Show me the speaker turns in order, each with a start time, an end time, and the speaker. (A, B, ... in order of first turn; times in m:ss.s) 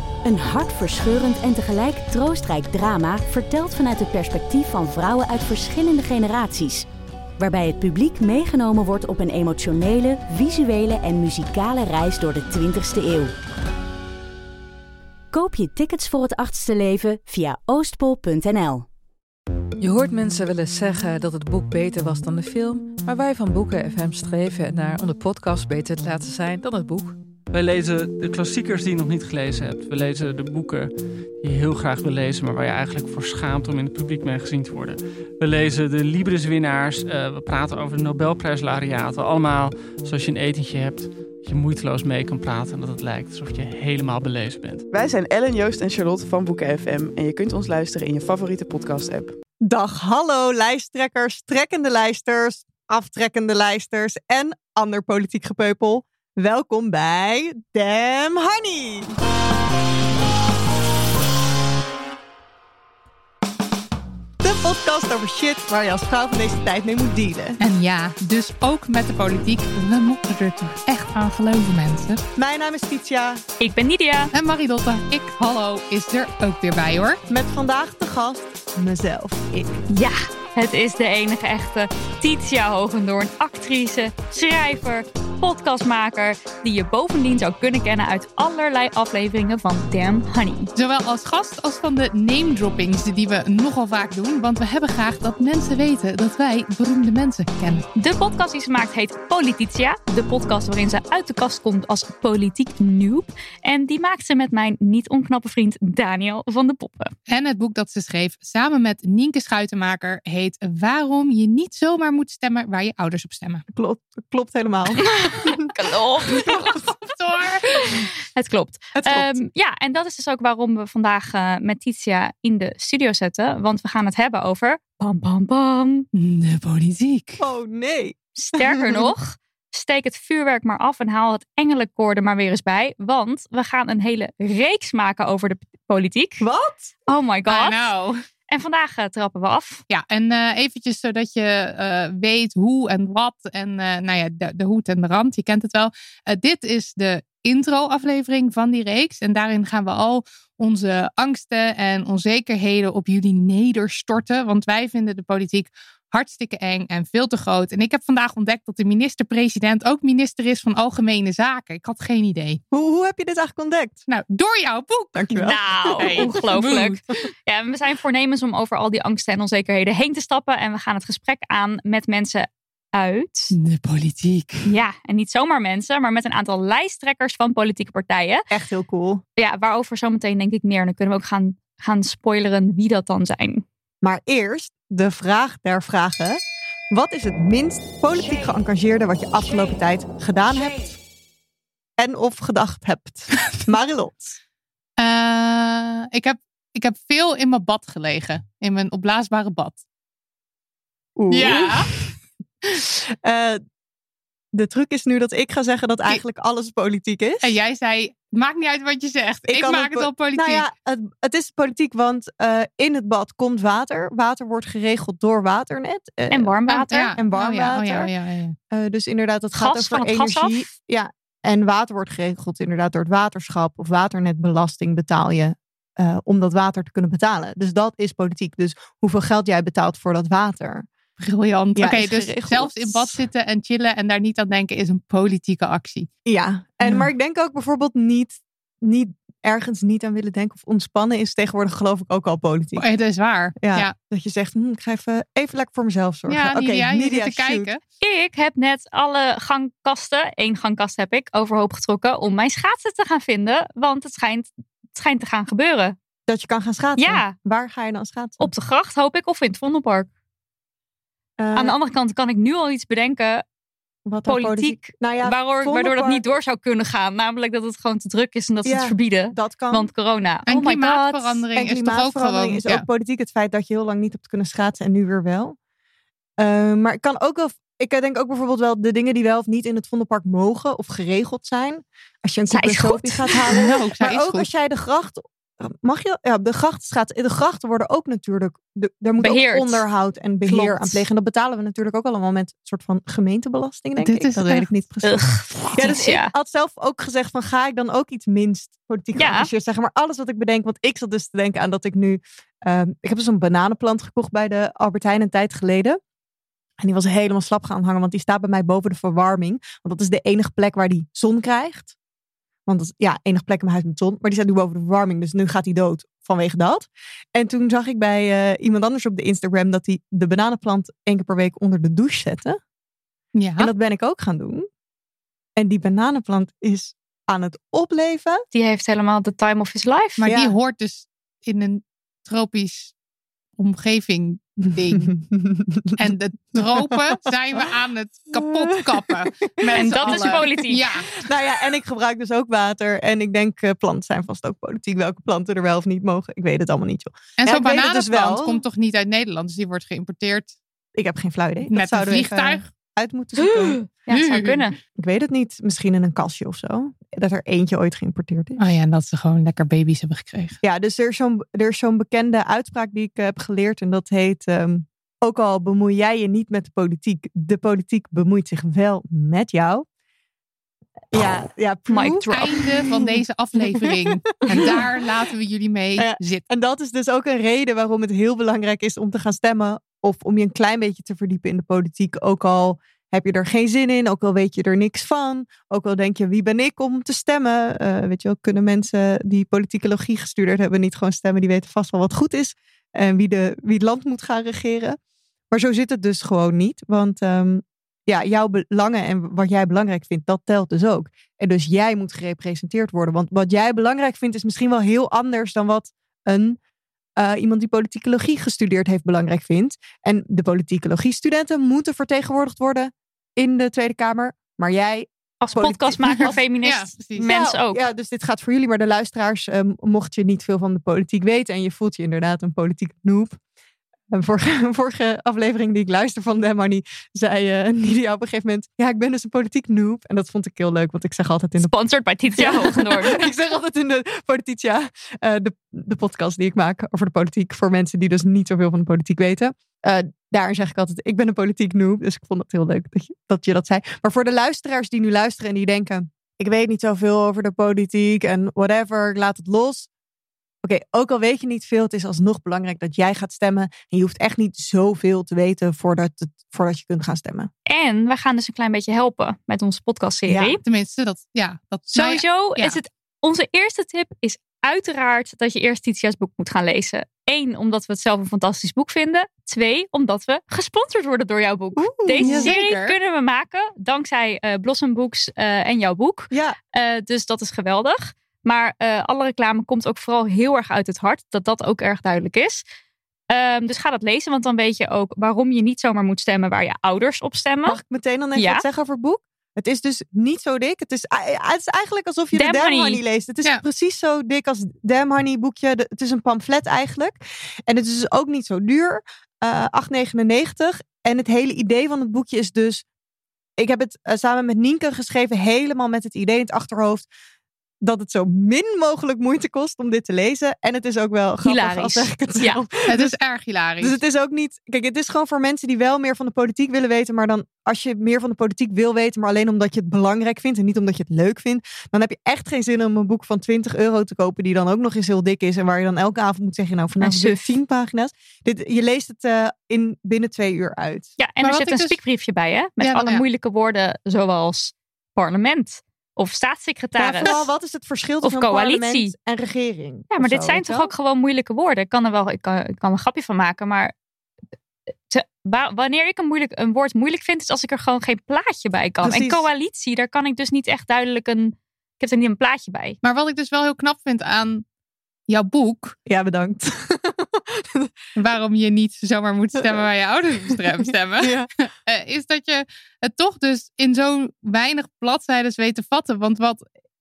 0:00.2-0:06.8 A
0:07.4-0:13.3 A
0:15.3-0:18.9 A
0:19.8-0:27.2 B
0:27.5-0:44.8 C
0:44.9-0:49.3 D
0:49.6-0:59.1 E
1:04.4-1:07.6 E
1:07.6-1:12.2 F
1:12.4-1:13.4 E
1:13.6-1:14.3 G
1:14.3-1:17.2 F
1:17.3-1:19.8 E
1:19.9-1:30.7 G
1:30.7-1:37.9 F
1:37.9-1:47.1 G
1:47.3-1:53.6 F
1:53.7-1:55.7 E
1:55.0-1:56.7 G
1:56.5-1:58.0 F
1:57.8-2:06.0 G
1:58.9-1:59.5 E
2:06.1-2:07.4 F
2:07.4-2:09.1 E
2:08.4-2:16.4 G
2:16.4-2:16.9 E
2:17.1-2:17.9 G
2:17.5-2:18.2 F
2:18.5-2:19.8 G
2:19.9-2:42.6 F
2:42.7-2:44.0 E
2:44.1-2:45.2 F
2:45.1-2:46.3 E
2:45.3-2:53.5 G
2:46.0-2:47.1 F
2:53.5-2:54.7 F
2:54.7-2:58.5 G
2:58.5-2:59.2 E
2:59.4-3:03.6 G
3:04.0-3:06.4 E
3:06.9-3:11.0 E
3:12.0-3:14.3 E
3:15.0-3:19.8 F
3:21.2-3:22.1 E
3:21.3-3:21.9 F
3:22.8-3:23.6 E
3:24.5-3:27.5 E
3:27.4-3:30.6 F
3:29.5-3:36.5 E
3:36.3-3:37.2 G
3:36.7-3:38.6 F
3:37.1-3:38.1 E
3:38.7-3:50.9 E
3:39.5-3:40.7 G
3:51.2-3:56.1 F
3:51.8-3:53.2 E
3:56.2-4:02.9 E
4:02.8-4:03.9 F
4:03.6-4:07.7 E
4:06.3-4:07.8 F
4:08.0-4:16.0 G
4:16.3-4:18.5 E
4:17.0-4:17.3 G
4:18.4-4:20.1 G
4:21.4-4:21.7 E
4:21.5-4:23.4 G
4:24.0-4:26.3 E
4:24.2-4:31.4 G
4:28.6-4:29.9 E
4:30.5-4:32.8 F
4:31.5-4:35.6 E
4:36.4-5:06.0 E
4:42.5-4:43.5 G
4:43.5-4:44.5 F
4:49.2-4:49.8 G
4:50.4-4:51.0 G
4:54.0-4:54.7 F
4:55.0-4:56.3 G
4:59.2-4:59.5 G
5:06.8-5:11.9 E
5:12.7-5:22.6 E
5:23.3-5:23.7 F
5:23.6-5:24.6 E
5:25.6-5:28.4 E
5:28.5-5:30.2 G
5:30.2-5:32.9 F
5:30.2-5:30.5 E
5:33.6-5:35.1 F
5:34.9-5:36.9 E
5:36.0-5:41.1 F
5:38.3-5:40.6 E
5:39.7-5:40.9 G
5:41.2-5:48.6 E
5:47.4-5:50.5 F
5:50.9-5:53.8 E
5:51.7-5:52.7 F
5:53.4-5:54.7 G
5:54.1-5:54.7 F
5:55.0-5:58.6 E
5:58.6-6:00.6 F
6:00.6-6:09.8 E
6:11.1-6:14.9 E
6:11.9-6:12.5 G
6:12.3-6:16.4 F
6:16.0-6:35.0 E
6:35.5-6:46.6 E
6:47.2-6:56.3 E
6:55.4-6:57.8 G
6:56.6-6:57.3 F
6:57.2-7:03.4 E
7:04.1-7:11.7 E
7:11.6-7:13.3 G
7:12.4-7:29.9 E
7:30.6-7:37.5 E
7:37.7-7:40.6 G
7:40.3-7:40.6 E
7:40.6-7:42.8 F
7:41.9-8:02.6 G
7:51.8-7:52.5 E
7:52.2-7:52.9 F
7:56.3-7:56.6 E
8:03.3-8:07.8 G
8:07.6-8:22.8 E
8:08.3-8:08.6 G
8:12.3-8:13.0 G
8:23.6-8:27.1 E
8:27.8-8:33.1 E
8:31.4-8:32.6 G
8:32.9-8:34.0 F
8:33.8-8:51.1 E
8:47.0-8:47.6 G
8:51.2-8:57.4 G
8:51.4-8:52.0 F
8:52.8-8:53.2 F
8:57.0-9:00.9 E
8:58.2-8:59.1 G
9:00.1-9:03.9 G
9:05.1-9:13.0 G
9:09.0-9:09.5 E
9:13.0-9:14.6 F
9:15.3-9:16.0 F
9:16.0-9:17.9 E
9:18.2-9:26.6 F
9:21.2-9:21.5 E